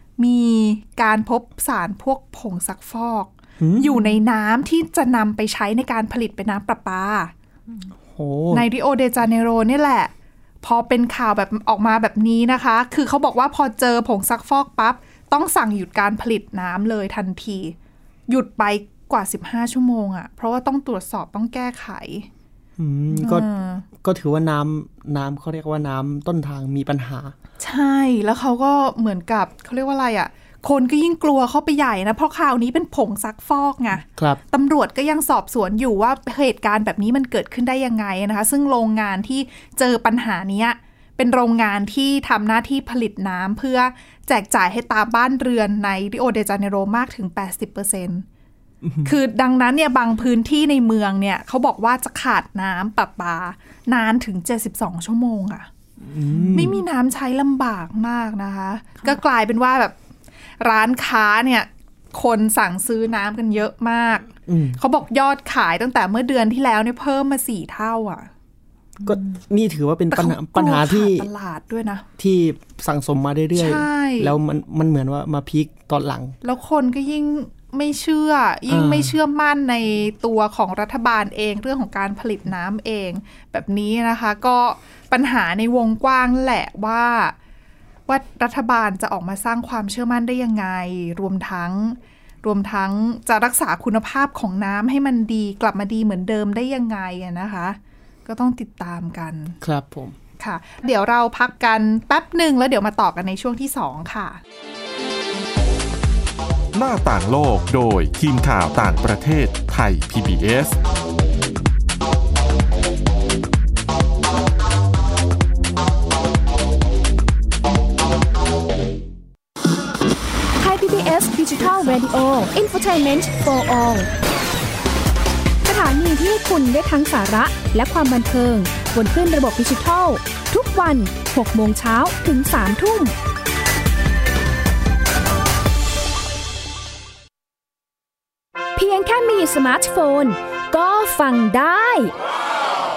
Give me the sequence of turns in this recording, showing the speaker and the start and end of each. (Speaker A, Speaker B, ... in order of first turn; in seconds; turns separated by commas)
Speaker A: 0.2-7.3, Speaker B: 3.6-4.1, Speaker B: 8.1-8.7, Speaker A: 8.5-17.8, Speaker A: 18.3-22.3, Speaker B: 22.8-23.5, Speaker A: 23.1-23.9, Speaker B: 24.0-27.4, Speaker A: 27.6-48.2, Speaker B: 34.1-34.4, Speaker B: 48.8-49.2, Speaker A: 49.0-55.7, Speaker B: 56.0-56.8, Speaker A: 56.5-60.0, Speaker A: 60.6-68.3, Speaker B: 64.5-64.8, Speaker B: 69.0-71.3, Speaker A: 70.1-72.1, Speaker B: 72.2-76.4, Speaker A: 73.5-74.3, Speaker A: 76.4-87.3, Speaker B: 78.7-79.2, Speaker A: 88.1-99.6, Speaker B: 99.6-100.2, Speaker A: 100.4-104.4, Speaker C: 106.7-110.8, Speaker D: 120.6-124.1, Speaker D: 125.7-133.1, Speaker D: 138.8-142.1